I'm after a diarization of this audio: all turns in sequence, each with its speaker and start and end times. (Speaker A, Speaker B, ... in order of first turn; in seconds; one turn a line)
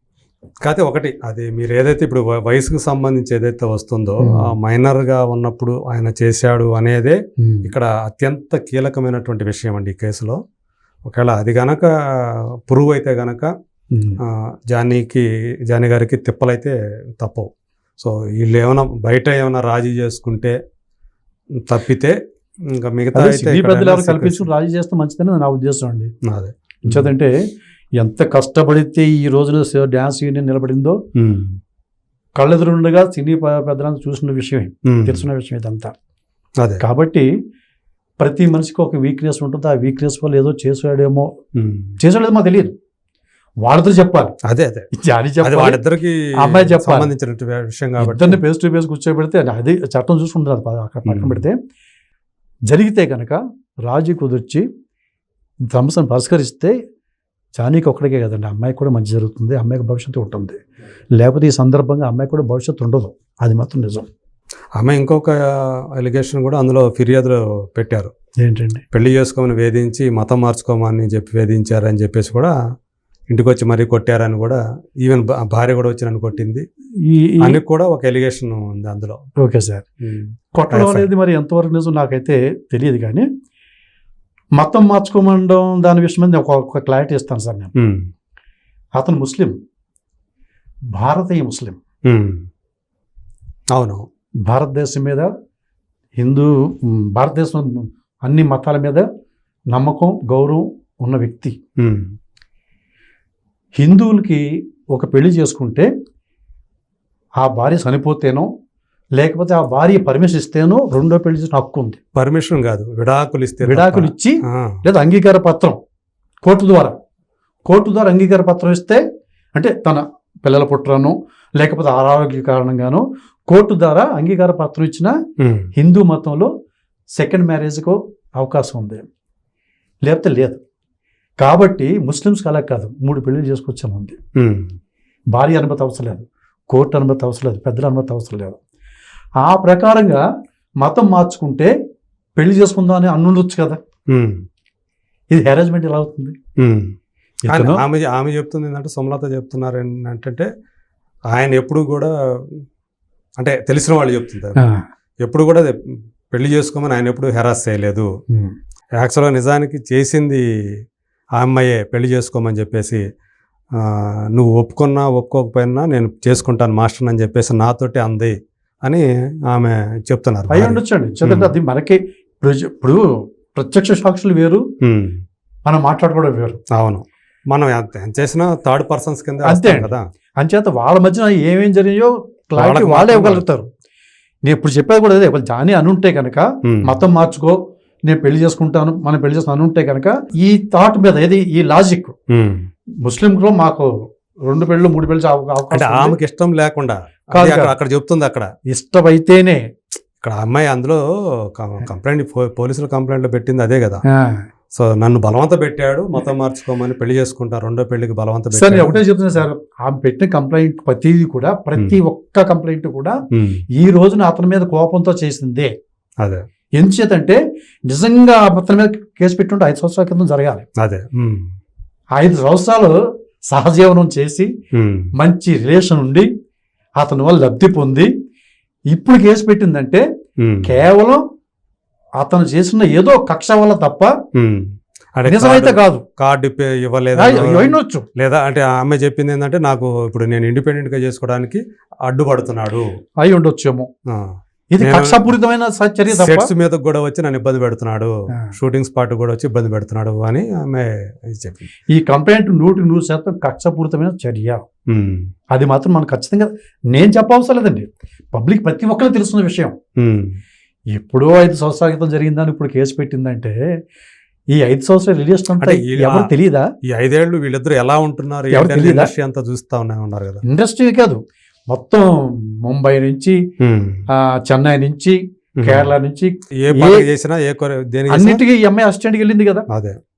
Speaker A: 0.6-10.4
Speaker B: 4.2-4.5
Speaker B: 7.4-7.7
Speaker A: 11.1-13.5
Speaker B: 13.9-14.2
Speaker A: 14.2-20.6
Speaker A: 21.7-22.1
Speaker A: 22.7-24.5
Speaker B: 23.1-26.1
Speaker A: 26.3-27.1
Speaker B: 26.9-27.3
Speaker B: 28.0-31.0
Speaker A: 31.1-31.6
Speaker B: 32.4-35.9
Speaker A: 34.9-35.2
Speaker B: 36.8-37.3
Speaker B: 38.2-41.3
Speaker A: 41.5-41.9
Speaker B: 42.0-42.7
Speaker B: 43.6-44.3
Speaker A: 44.5-44.9
Speaker B: 44.9-45.8
Speaker A: 45.4-48.4
Speaker B: 46.4-47.1
Speaker B: 48.0-51.6
Speaker A: 51.0-51.4
Speaker B: 52.7-54.6
Speaker B: 55.7-56.7
Speaker B: 57.5-60.6
Speaker B: 61.2-64.1
Speaker A: 64.8-68.1
Speaker B: 68.4-68.8
Speaker A: 68.9-72.5
Speaker A: 73.3-76.6
Speaker B: 77.0-77.6
Speaker A: 77.4-79.2
Speaker B: 79.4-79.8
Speaker A: 80.0-81.1
Speaker B: 80.5-83.3
Speaker B: 84.6-87.7
Speaker A: 87.7-88.0
Speaker B: 89.0-89.5
Speaker B: 90.9-91.8
Speaker A: 92.1-92.4
Speaker A: 93.7-94.0
Speaker B: 94.5-95.3
Speaker B: 96.2-99.0
Speaker B: 99.7-101.5
Speaker A: 101.8-102.1
Speaker B: 103.8-104.4
Speaker B: 104.9-105.9
Speaker B: 107.4-108.5
Speaker B: 109.2-112.0
Speaker A: 112.1-114.8
Speaker B: 113.6-115.8
Speaker B: 116.4-116.9
Speaker B: 117.7-119.0
Speaker B: 119.5-125.1
Speaker A: 125.4-125.7
Speaker B: 125.8-126.5
Speaker B: 127.2-129.0
Speaker B: 130.1-130.6
Speaker B: 131.4-134.2
Speaker A: 134.4-134.7
Speaker B: 135.3-138.6
Speaker B: 139.4-140.2
Speaker B: 140.8-141.7
Speaker B: 142.4-143.8
Speaker A: 144.1-144.4
Speaker B: 145.3-146.3
Speaker A: 146.6-146.9
Speaker B: 147.4-147.8
Speaker A: 147.5-150.5
Speaker A: 151.3-152.1
Speaker A: 153.4-154.6
Speaker A: 155.2-155.7
Speaker A: 156.3-158.1
Speaker A: 159.0-160.4
Speaker A: 161.4-163.0
Speaker A: 163.8-171.5
Speaker B: 170.5-173.0
Speaker B: 173.5-174.6
Speaker A: 174.8-175.2
Speaker B: 175.7-176.6
Speaker A: 176.7-180.0
Speaker B: 179.4-183.7
Speaker A: 182.6-183.5
Speaker B: 184.4-192.1
Speaker A: 186.7-186.9
Speaker A: 192.3-192.6
Speaker B: 193.0-193.9
Speaker B: 194.4-196.2
Speaker A: 195.7-198.5
Speaker B: 197.3-197.7
Speaker B: 198.7-199.6
Speaker A: 200.2-204.0
Speaker B: 204.1-204.4
Speaker A: 204.7-209.0
Speaker B: 208.5-213.2
Speaker A: 213.3-213.6
Speaker B: 213.8-215.7
Speaker B: 216.8-220.6
Speaker A: 220.8-221.4
Speaker B: 222.2-222.9
Speaker B: 223.5-224.5
Speaker A: 224.7-225.1
Speaker B: 225.2-226.3
Speaker B: 227.0-228.1
Speaker B: 228.9-230.0
Speaker A: 230.4-230.7
Speaker B: 230.6-231.2
Speaker B: 232.2-234.1
Speaker A: 234.3-242.8
Speaker B: 235.3-236.0
Speaker B: 237.1-238.0
Speaker B: 243.2-243.9
Speaker A: 244.1-245.3
Speaker B: 244.7-246.5
Speaker A: 246.1-251.7
Speaker B: 251.9-254.6
Speaker A: 254.9-255.2
Speaker B: 255.5-259.7
Speaker A: 260.0-260.3
Speaker B: 260.9-263.6
Speaker B: 264.5-266.7
Speaker A: 265.6-266.3
Speaker A: 266.9-270.4
Speaker B: 268.5-269.1
Speaker B: 270.4-272.1
Speaker B: 272.6-273.4
Speaker A: 273.6-274.0
Speaker B: 274.1-277.1
Speaker A: 275.6-275.9
Speaker A: 276.6-278.4
Speaker B: 278.1-279.7
Speaker A: 279.7-279.9